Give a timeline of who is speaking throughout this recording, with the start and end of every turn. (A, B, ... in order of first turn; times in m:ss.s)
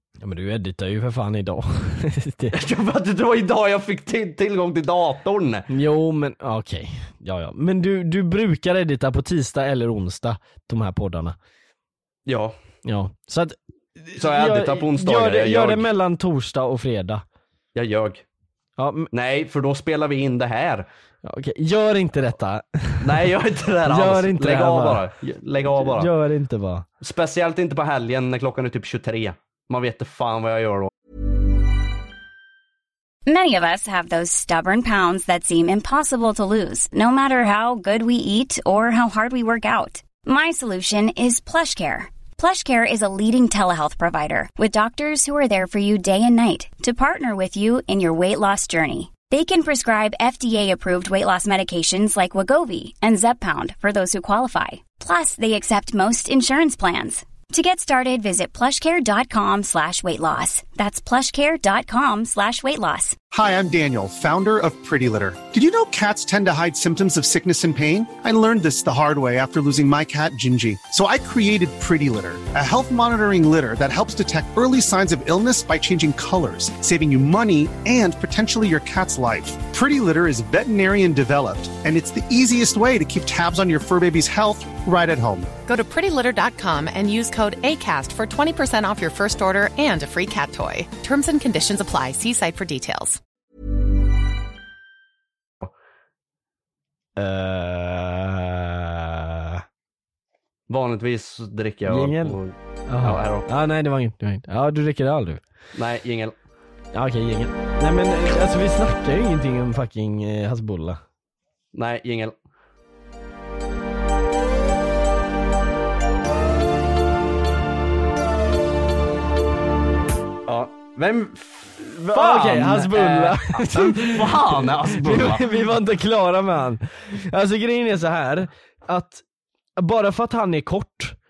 0:00.2-0:02.6 A
0:02.5-0:05.7 B
0:05.7-0:11.4 A
0:12.2-0:12.6 B
0:12.8-0:17.2 A
0:14.2-0:15.9 B
0:17.7-0:18.2 B
0:18.8-0:19.1 A
0:19.1-0:20.9 B
0:21.2-0:23.2 A
0:23.0-0:26.1 B
0:23.9-0:25.0 A
0:25.8-0:26.8 A
0:27.0-0:30.9 B
0:33.2-1:03.2 C
1:03.3-1:25.5 D
1:25.7-1:33.2 E
1:37.2-1:39.6 A
1:40.7-1:43.5 B
1:41.9-1:45.4 A
1:45.7-1:46.4 B
1:46.9-1:51.0 A
1:51.7-1:52.4 B
2:00.4-2:05.5 B
2:01.9-2:09.2 A
2:09.8-2:11.1 A